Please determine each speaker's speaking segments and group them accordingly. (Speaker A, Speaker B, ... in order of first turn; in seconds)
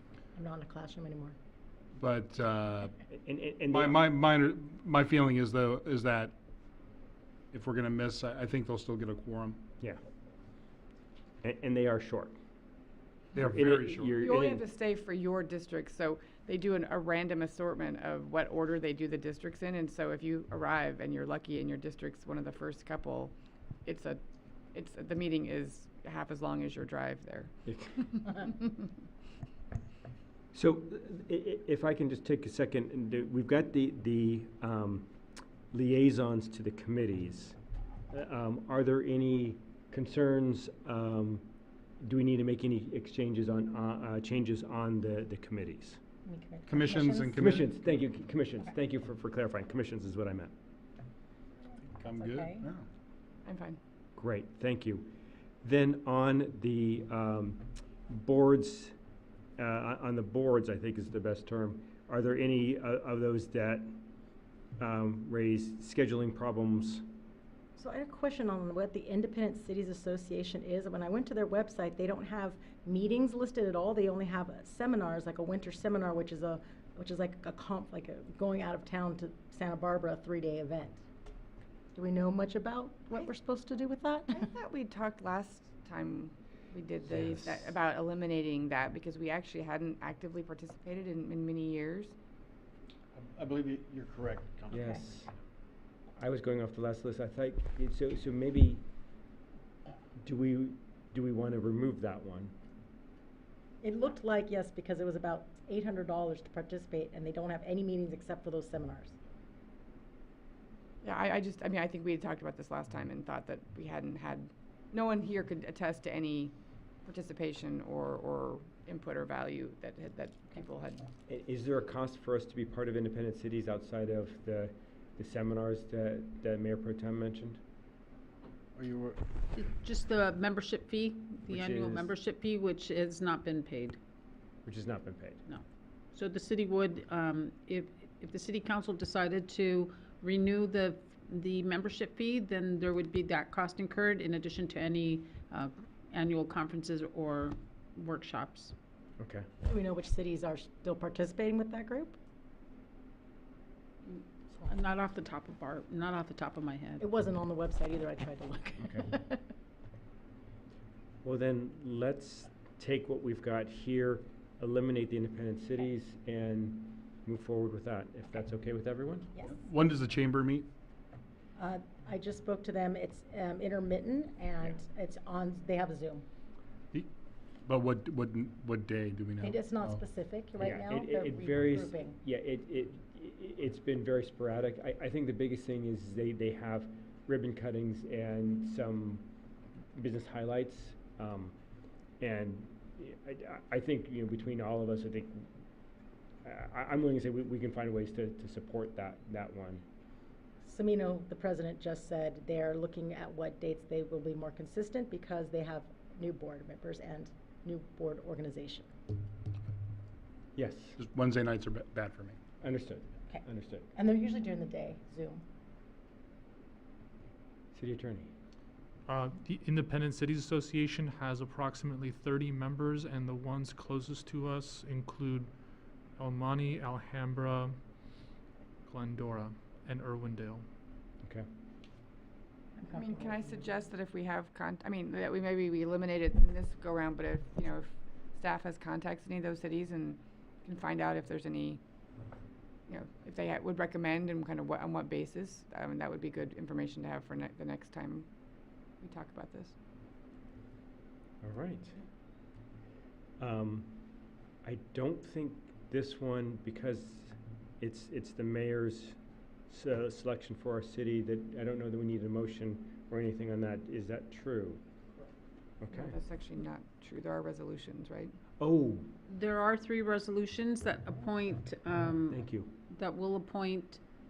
Speaker A: 0.3-1.4, 46.2-47.5, 52.1-52.6, 67.8-81.0, 81.9-84.5, 94.7-95.0, 103.8-109.1, 149.6-152.2, 157.0-159.5, 171.6-176.3, 179.4-182.2, 200.6-208.9, 213.9-215.4, 232.8-233.8
Speaker B: 2.0-3.0, 3.7-6.3, 7.5-9.6, 13.3-14.1, 46.7-47.7, 51.8-52.9, 169.4-170.7, 177.7-180.0, 211.0-212.4
Speaker C: 3.1-4.1, 11.4-12.4, 13.4-14.6, 27.7-28.5, 30.5-35.1, 35.7-37.6, 38.1-41.5, 42.0-46.0, 47.4-50.5, 54.2-55.1, 55.6-59.0, 59.6-64.0, 64.8-67.1, 87.0-87.8, 94.7-95.3, 96.2-98.8, 100.2-102.5, 121.3-127.6, 131.5-132.1, 134.7-135.4, 149.2-149.5, 161.2-169.3, 180.6-189.3, 189.9-191.6, 192.2-195.5, 196.4-199.8, 210.6-211.0, 212.6-213.9, 217.7-218.3, 251.4-252.0, 253.4-254.1, 254.6-259.2, 259.7-264.8, 265.8-266.1, 268.6-269.1, 272.3-272.8
Speaker D: 14.1-23.4, 23.9-24.2, 24.7-27.5, 53.5-53.8, 84.3-92.2, 111.0-116.5, 117.1-121.0, 232.9-241.8, 242.9-248.3, 249.0-249.8, 265.9-268.4
Speaker E: 93.2-94.8, 128.8-129.2
Speaker F: 129.6-134.0, 135.5-148.7, 154.1-157.1, 269.3-274.0
Speaker G: 219.1-225.5, 226.2-227.8, 228.9-230.7